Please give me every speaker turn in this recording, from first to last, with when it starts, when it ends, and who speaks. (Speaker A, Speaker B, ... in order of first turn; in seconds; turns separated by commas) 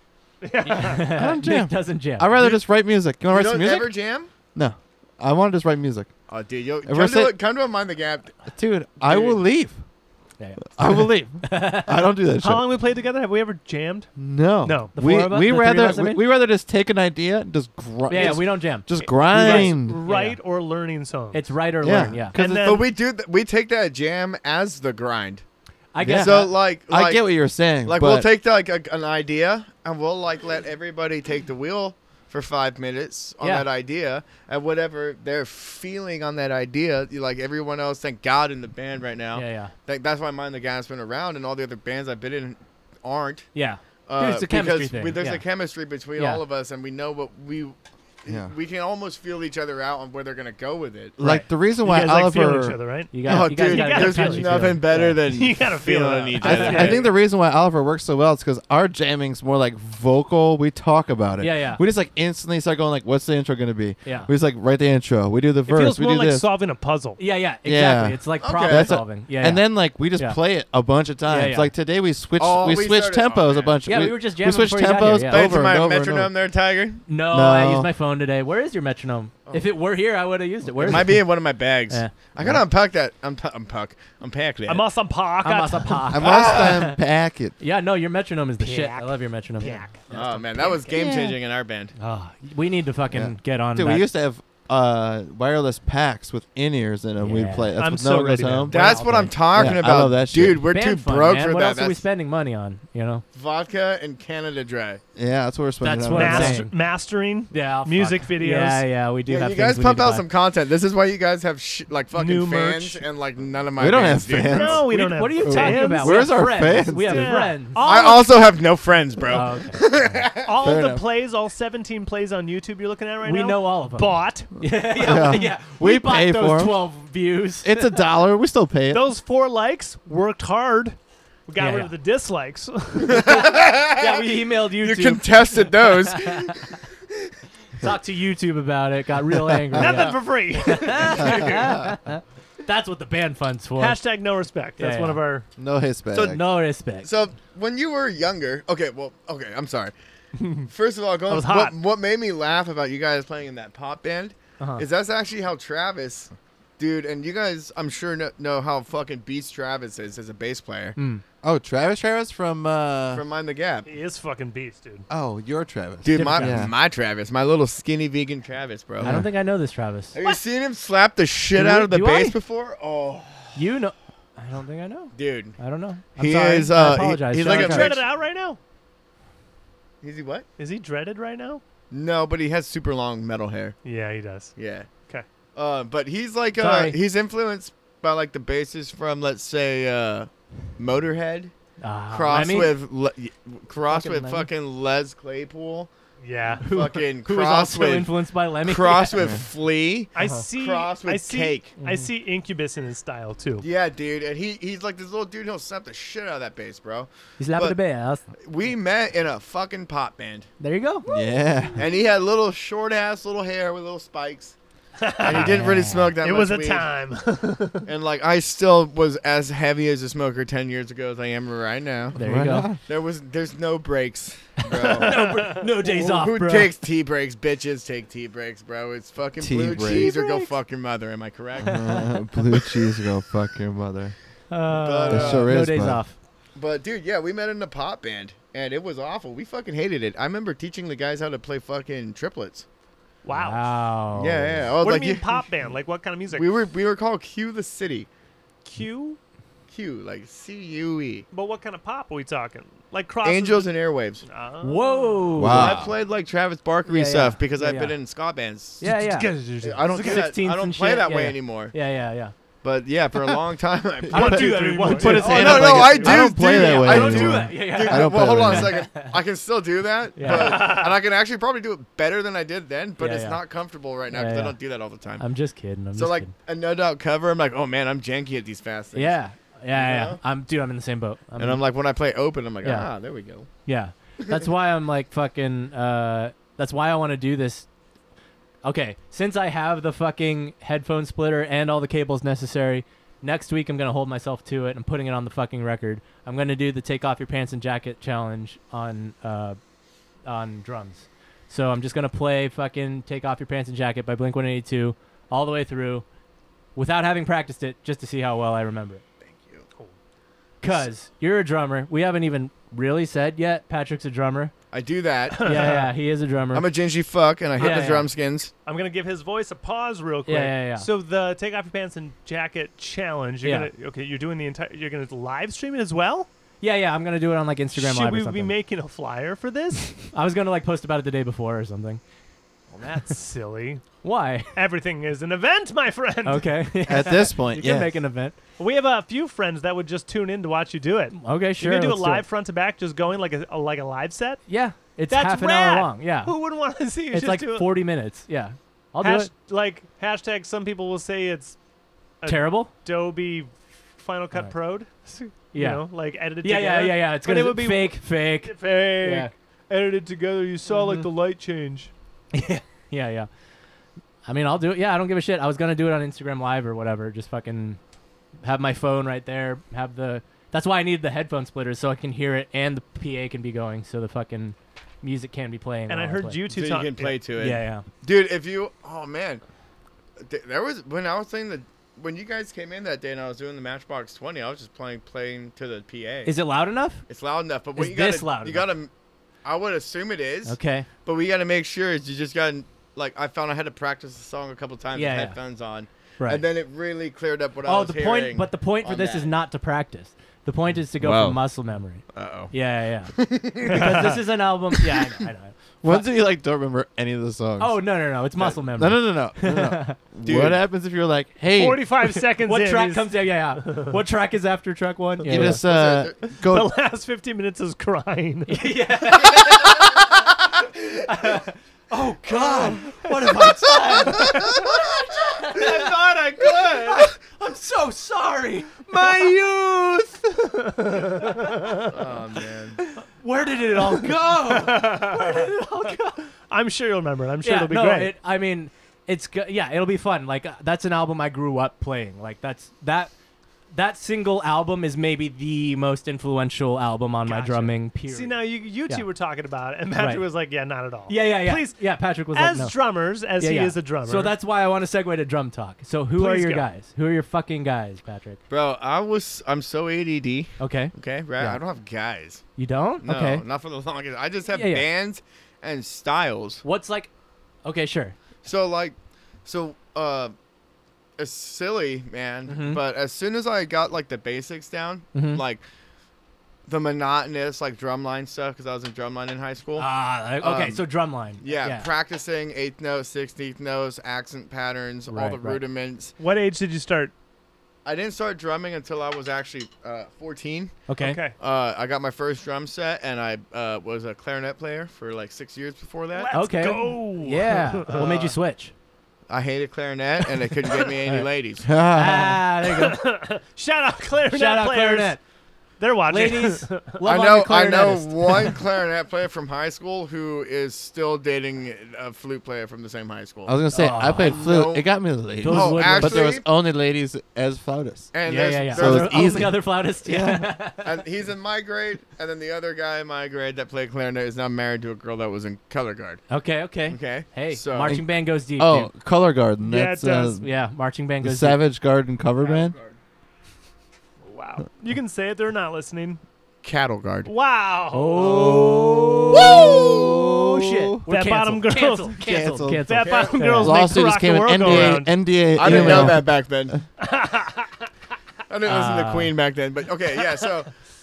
Speaker A: 0.4-1.2, Speaker B: 0.7-2.5, Speaker C: 1.1-3.9, Speaker D: 3.3-4.3, Speaker C: 4.5-6.1, Speaker D: 6.3-8.4, Speaker C: 6.8-7.3, Speaker C: 8.5-9.8, Speaker D: 9.0-9.4, Speaker B: 10.4-12.1, Speaker C: 10.7-12.7, Speaker A: 12.4-14.1, Speaker C: 14.2-20.0, Speaker A: 14.6-14.9, Speaker B: 14.9-16.2, Speaker B: 18.1-20.4, Speaker A: 19.0-21.4, Speaker B: 21.3-22.3, Speaker C: 21.8-22.5, Speaker A: 22.3-22.9, Speaker D: 22.4-25.4, Speaker B: 25.9-26.5, Speaker C: 26.0-28.3, Speaker D: 26.1-43.5, Speaker B: 33.4-33.6, Speaker B: 39.3-39.7, Speaker B: 43.5-45.4, Speaker D: 44.1-51.4, Speaker B: 46.1-46.4, Speaker C: 48.3-48.5, Speaker C: 51.2-52.8, Speaker A: 51.8-57.0, Speaker B: 53.1-55.2, Speaker D: 53.2-57.1, Speaker C: 56.4-66.5, Speaker B: 56.4-57.0, Speaker B: 61.4-61.8, Speaker A: 65.7-67.2, Speaker B: 67.2-70.4, Speaker C: 67.6-76.3, Speaker D: 68.4-69.0, Speaker B: 71.2-71.7, Speaker D: 72.4-73.8, Speaker B: 73.8-75.5, Speaker D: 75.2-77.0, Speaker B: 77.1-81.2, Speaker C: 77.3-77.9, Speaker D: 80.8-84.8, Speaker C: 80.8-81.1, Speaker A: 84.7-86.2, Speaker B: 85.4-87.0, Speaker C: 86.1-87.5, Speaker D: 86.3-86.7, Speaker B: 87.6-90.9, Speaker A: 88.6-90.0, Speaker D: 90.1-91.9, Speaker C: 90.9-91.3, Speaker B: 92.0-94.1, Speaker C: 93.1-98.7, Speaker B: 97.2-97.7, Speaker A: 97.8-99.0, Speaker B: 98.3-99.8, Speaker D: 98.7-102.0, Speaker C: 99.5-100.6, Speaker B: 100.6-103.2, Speaker D: 103.3-105.0, Speaker C: 105.1-106.6, Speaker B: 105.8-106.7, Speaker A: 106.1-108.8, Speaker B: 107.5-110.2, Speaker D: 109.3-114.8, Speaker A: 112.1-113.0, Speaker C: 113.8-114.8, Speaker A: 114.4-116.4, Speaker B: 114.9-117.9, Speaker C: 115.4-117.4, Speaker A: 117.0-118.5, Speaker D: 117.8-120.6, Speaker B: 119.3-119.8, Speaker A: 120.4-124.5, Speaker C: 120.6-121.0, Speaker B: 123.2-127.9, Speaker C: 124.9-126.8, Speaker C: 127.6-129.0, Speaker A: 128.9-131.0, Speaker A: 131.5-133.3, Speaker B: 131.6-131.9, Speaker D: 133.0-134.2, Speaker B: 133.2-136.6, Speaker D: 134.8-136.8, Speaker B: 137.8-144.0, Speaker C: 139.7-140.1, Speaker A: 139.8-141.6, Speaker C: 141.2-142.0, Speaker A: 143.8-145.4, Speaker B: 144.8-145.2, Speaker C: 145.6-146.4, Speaker D: 146.1-146.4, Speaker B: 146.2-147.1, Speaker D: 147.0-149.9, Speaker A: 150.3-150.7, Speaker D: 150.7-160.9, Speaker A: 151.3-151.8, Speaker B: 154.6-154.8, Speaker B: 160.9-161.2, Speaker C: 161.4-163.2, Speaker D: 163.1-163.9, Speaker A: 163.8-165.0, Speaker C: 165.1-166.7, Speaker D: 166.0-169.1, Speaker B: 166.1-166.7, Speaker B: 169.0-170.2, Speaker C: 169.0-169.3, Speaker D: 170.1-173.6, Speaker B: 171.5-172.3, Speaker B: 173.5-178.0, Speaker D: 175.1-175.6, Speaker D: 176.2-178.0, Speaker A: 177.4-178.6, Speaker D: 180.0-180.4, Speaker A: 180.6-181.6, Speaker D: 181.9-183.8, Speaker A: 183.8-184.6, Speaker D: 184.6-184.9, Speaker D: 185.5-191.5, Speaker B: 186.6-187.0, Speaker B: 191.8-192.7, Speaker D: 192.1-195.9, Speaker B: 193.9-194.5, Speaker A: 196.2-196.7, Speaker B: 196.6-199.4, Speaker D: 196.6-201.7, Speaker A: 200.1-203.6, Speaker B: 200.2-200.4, Speaker B: 201.8-202.1, Speaker D: 203.6-207.8, Speaker B: 207.4-208.2, Speaker D: 208.4-210.5, Speaker B: 210.6-211.1, Speaker C: 211.1-211.8, Speaker D: 211.8-214.6, Speaker A: 215.0-215.6, Speaker D: 215.2-216.9, Speaker B: 215.3-216.1, Speaker A: 216.2-217.9, Speaker D: 217.8-222.2, Speaker B: 222.2-222.7, Speaker C: 222.2-222.8, Speaker D: 222.8-225.3, Speaker A: 224.7-225.7, Speaker B: 225.0-226.7, Speaker D: 225.8-232.8, Speaker C: 229.4-230.1, Speaker A: 229.7-230.6, Speaker C: 231.7-234.1, Speaker B: 234.5-236.2, Speaker D: 234.7-235.5, Speaker C: 235.1-236.0, Speaker D: 236.5-242.7, Speaker A: 243.2-243.6, Speaker B: 243.3-244.6, Speaker D: 244.1-245.4, Speaker A: 244.8-246.5, Speaker D: 246.3-248.1, Speaker A: 248.6-249.2, Speaker D: 249.7-251.2, Speaker A: 251.3-255.3, Speaker D: 253.2-254.2, Speaker B: 254.6-255.8, Speaker C: 255.3-255.9, Speaker D: 255.4-258.8, Speaker B: 256.9-257.9, Speaker B: 258.8-259.3, Speaker A: 258.8-260.3, Speaker D: 259.6-261.7, Speaker B: 259.9-262.3, Speaker D: 262.6-275.2, Speaker C: 264.1-268.9, Speaker B: 264.1-269.1, Speaker A: 264.1-266.1, Speaker B: 270.1-270.7, Speaker A: 270.2-270.9, Speaker B: 273.0-273.4, Speaker B: 274.1-274.6, Speaker B: 275.2-276.3, Speaker D: 275.9-279.2, Speaker B: 278.9-281.6, Speaker D: 279.7-280.2, Speaker D: 281.4-283.5, Speaker B: 282.6-282.9, Speaker B: 283.6-287.7, Speaker B: 288.6-299.6, Speaker B: 300.2-306.0, Speaker B: 306.8-309.0, Speaker D: 309.2-309.6, Speaker B: 310.6-314.5, Speaker D: 314.7-315.8, Speaker A: 315.4-315.9, Speaker B: 315.4-316.7, Speaker D: 316.5-318.5, Speaker B: 317.6-318.1, Speaker A: 317.6-318.0, Speaker A: 318.6-326.3, Speaker B: 320.3-320.9, Speaker B: 323.4-323.7, Speaker B: 326.6-328.5, Speaker A: 327.8-330.1, Speaker B: 330.1-332.0, Speaker A: 332.7-333.9, Speaker B: 334.0-334.5, Speaker A: 334.5-336.5, Speaker B: 336.2-338.3, Speaker C: 336.9-338.0, Speaker A: 338.6-344.5, Speaker B: 341.1-342.2, Speaker B: 344.5-346.3, Speaker A: 345.1-347.8, Speaker B: 347.1-349.3, Speaker A: 349.0-351.6, Speaker A: 352.2-361.9, Speaker B: 352.2-352.7, Speaker B: 355.5-355.9, Speaker B: 356.4-359.3, Speaker B: 360.8-361.0, Speaker B: 362.3-363.3, Speaker B: 364.2-367.8, Speaker B: 368.4-376.4, Speaker A: 375.9-377.2, Speaker D: 376.5-379.4, Speaker B: 377.4-377.8, Speaker D: 380.2-386.3, Speaker B: 386.2-387.0, Speaker D: 387.1-388.9, Speaker B: 387.7-388.7, Speaker D: 389.4-399.3, Speaker B: 390.4-390.9, Speaker B: 394.9-395.4, Speaker B: 397.6-406.1, Speaker C: 401.0-401.4, Speaker D: 402.1-402.5, Speaker D: 403.1-404.2, Speaker A: 403.7-404.1, Speaker C: 405.8-407.8, Speaker B: 407.6-410.0, Speaker C: 408.7-411.9, Speaker D: 410.2-410.6, Speaker A: 411.5-413.9, Speaker B: 412.3-415.6, Speaker C: 415.2-416.7, Speaker D: 415.3-416.2, Speaker A: 416.2-418.6, Speaker B: 418.5-420.0, Speaker D: 419.5-419.9, Speaker B: 421.1-431.6, Speaker D: 422.3-422.8, Speaker A: 424.1-424.6, Speaker D: 425.5-426.6, Speaker A: 425.6-427.0, Speaker A: 430.5-431.8, Speaker D: 431.8-432.8, Speaker B: 432.8-436.2, Speaker A: 433.8-435.5, Speaker A: 436.5-438.1, Speaker B: 437.4-443.1, Speaker B: 443.7-449.0, Speaker A: 447.2-454.3, Speaker B: 449.9-450.2, Speaker B: 451.1-452.8, Speaker B: 453.4-458.4, Speaker A: 456.2-456.7, Speaker D: 458.5-462.4, Speaker B: 460.6-461.6, Speaker B: 462.6-463.4, Speaker D: 463.0-466.6, Speaker B: 464.5-464.9, Speaker B: 466.6-467.1, Speaker B: 467.6-468.1, Speaker D: 468.4-470.3, Speaker D: 471.2-475.6, Speaker B: 472.5-472.8, Speaker B: 475.1-475.4, Speaker D: 476.7-479.9, Speaker B: 479.8-481.9, Speaker D: 480.4-480.8, Speaker D: 481.4-486.1, Speaker B: 485.1-485.6, Speaker A: 486.2-487.1, Speaker D: 487.8-490.8, Speaker B: 490.9-491.2, Speaker A: 491.0-491.3, Speaker D: 491.4-496.3, Speaker A: 496.1-498.3, Speaker B: 496.3-498.7, Speaker D: 498.0-498.3, Speaker D: 499.3-501.7, Speaker C: 501.6-502.4, Speaker B: 501.9-503.0, Speaker A: 502.6-505.2, Speaker B: 504.3-505.2, Speaker A: 505.8-507.0, Speaker B: 506.1-508.6, Speaker D: 507.0-513.6, Speaker C: 513.5-518.1, Speaker B: 513.7-514.5, Speaker D: 514.1-516.4, Speaker B: 515.4-516.3, Speaker D: 518.1-519.5, Speaker B: 518.2-521.0, Speaker C: 518.7-520.5, Speaker D: 520.8-526.2, Speaker B: 526.3-528.9, Speaker D: 526.9-527.9, Speaker C: 527.8-530.4, Speaker A: 529.6-530.4, Speaker B: 530.4-531.6, Speaker C: 531.2-532.8, Speaker D: 532.4-532.9, Speaker A: 534.2-536.2, Speaker D: 536.6-537.3, Speaker A: 537.2-538.9, Speaker B: 537.9-543.8, Speaker C: 538.4-541.0, Speaker A: 539.5-539.8, Speaker D: 539.5-540.1, Speaker A: 541.1-542.2, Speaker C: 542.2-542.9, Speaker A: 542.9-546.1, Speaker D: 543.0-543.5, Speaker C: 543.6-546.8, Speaker D: 544.7-544.9, Speaker D: 545.5-546.8, Speaker B: 545.6-546.1, Speaker A: 547.0-547.9, Speaker D: 548.5-550.7, Speaker B: 548.6-549.3